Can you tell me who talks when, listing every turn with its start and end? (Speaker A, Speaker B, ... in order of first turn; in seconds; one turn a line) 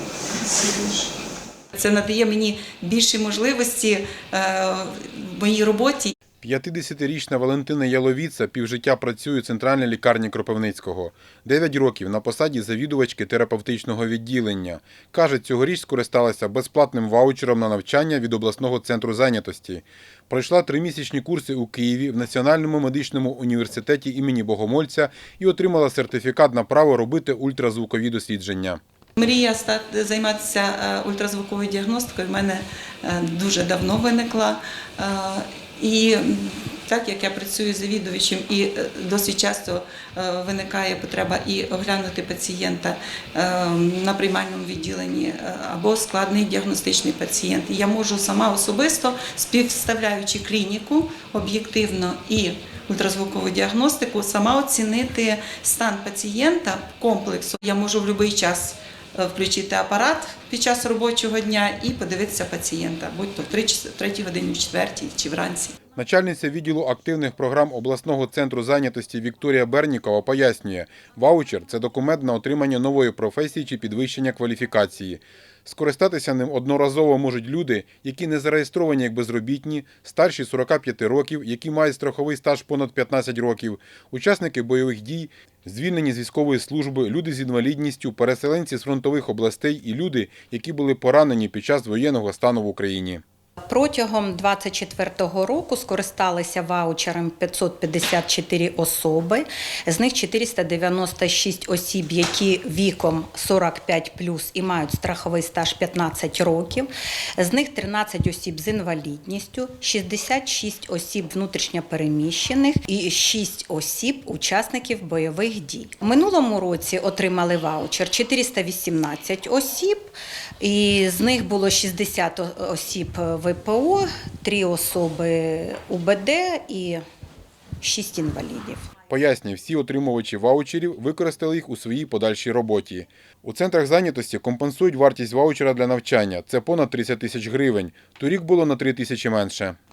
Speaker A: 0.4-1.1
Speaker A: 1.7-6.1
Speaker B: 6.4-28.8
Speaker A: 29.1-65.8
Speaker B: 66.0-93.2
Speaker C: 93.6-127.0
Speaker C: 127.8-128.9
Speaker B: 129.1-139.8